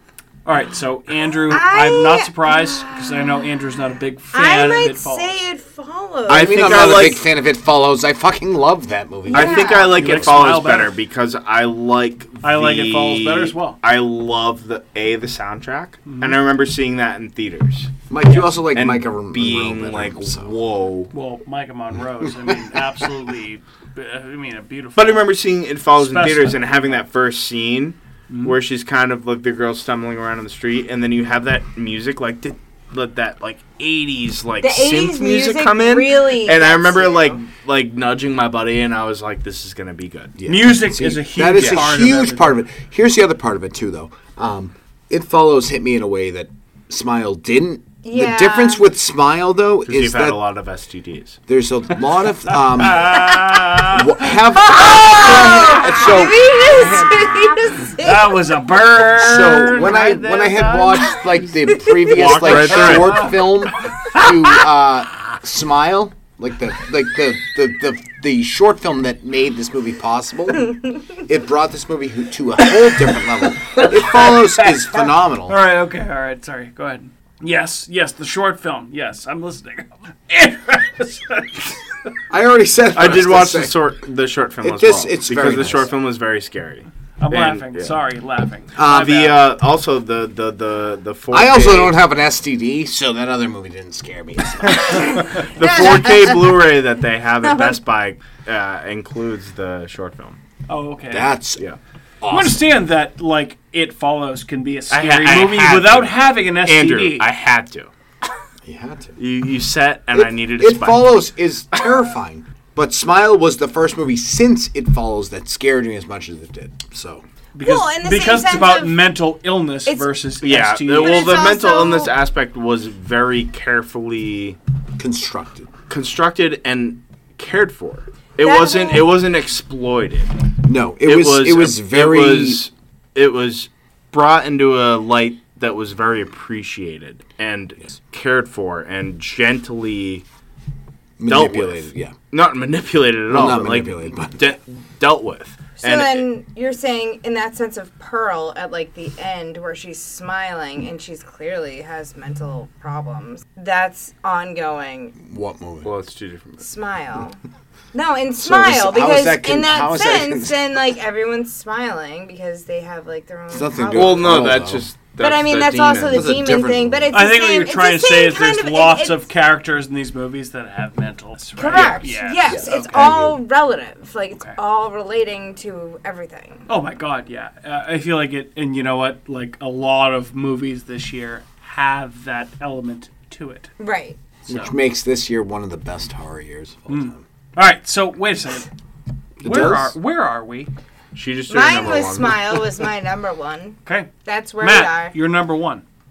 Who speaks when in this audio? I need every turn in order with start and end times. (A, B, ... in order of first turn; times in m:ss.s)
0:00.4-0:05.4 A
0:01.5-0:03.5 B
0:04.3-0:07.2 B
0:06.3-0:07.2 C
0:06.3-0:10.4 D
0:09.3-0:10.2 B
0:09.3-0:18.0 C
0:09.9-0:11.0 A
0:12.4-0:13.8 A
0:16.1-0:16.4 A
0:18.1-0:20.5 D
0:18.3-0:18.5 A
0:18.7-0:21.1 C
0:21.1-0:25.3 A
0:22.2-0:23.0 D
0:25.0-0:40.4 C
0:26.0-0:27.0 A
0:28.3-0:28.6 A
0:34.6-0:37.4 B
0:40.4-0:50.4 D
0:40.5-0:42.6 A
0:41.6-0:41.9 C
0:48.0-0:48.8 B
0:49.9-0:51.4 C
0:51.5-0:53.3 D
0:52.8-0:54.0 A
0:53.9-0:57.4 D
0:54.7-0:58.4 B
0:55.3-0:56.0 A
0:58.0-1:00.9 A
0:59.1-1:15.6 D
1:02.1-1:03.5 A
1:02.2-1:03.3 C
1:15.5-1:21.8 A
1:22.3-1:23.8 D
1:22.9-1:28.0 C
1:24.6-1:25.9 D
1:27.2-1:29.4 A
1:28.8-1:29.3 D
1:28.8-1:32.0 C
1:31.3-1:35.2 D
1:34.7-1:40.4 C
1:35.1-1:36.6 B
1:37.4-1:37.8 B
1:40.7-1:41.4 A
1:41.1-1:41.6 D
1:42.2-1:42.6 D
1:42.3-1:47.3 A
1:44.9-1:47.9 C
1:48.7-1:49.2 D
1:49.2-1:51.2 C
1:50.1-1:57.2 D
1:57.6-2:01.4 A
1:57.6-1:59.1 B
1:59.9-2:00.2 B
2:00.4-2:04.6 C
2:00.9-2:02.1 B
2:05.0-2:05.7 D
2:05.9-2:10.3 C
2:08.4-2:09.1 B
2:10.6-2:12.6 D
2:11.0-2:20.2 C
2:21.2-2:22.1 D
2:21.3-2:26.3 C
2:23.3-2:24.6 D
2:25.8-2:35.2 B
2:35.2-2:35.9 D
2:35.8-2:36.6 C
2:36.6-2:37.4 B
2:37.9-2:44.5 B
2:38.4-2:40.6 D
2:43.5-2:44.9 D
2:43.9-2:46.4 C
2:45.2-2:49.3 B
2:46.1-2:47.2 D
2:47.1-2:52.9 A
2:51.6-2:56.6 B
2:51.7-2:52.1 C
2:52.5-2:53.4 D
2:56.7-3:03.7 A
3:03.8-3:04.2 B
3:04.4-3:04.7 A
3:04.5-3:07.2 D
3:06.9-3:08.7 A
3:09.4-3:10.0 D
3:09.4-3:10.7 A
3:11.1-3:12.6 C
3:11.5-3:15.2 B
3:13.8-3:15.8 A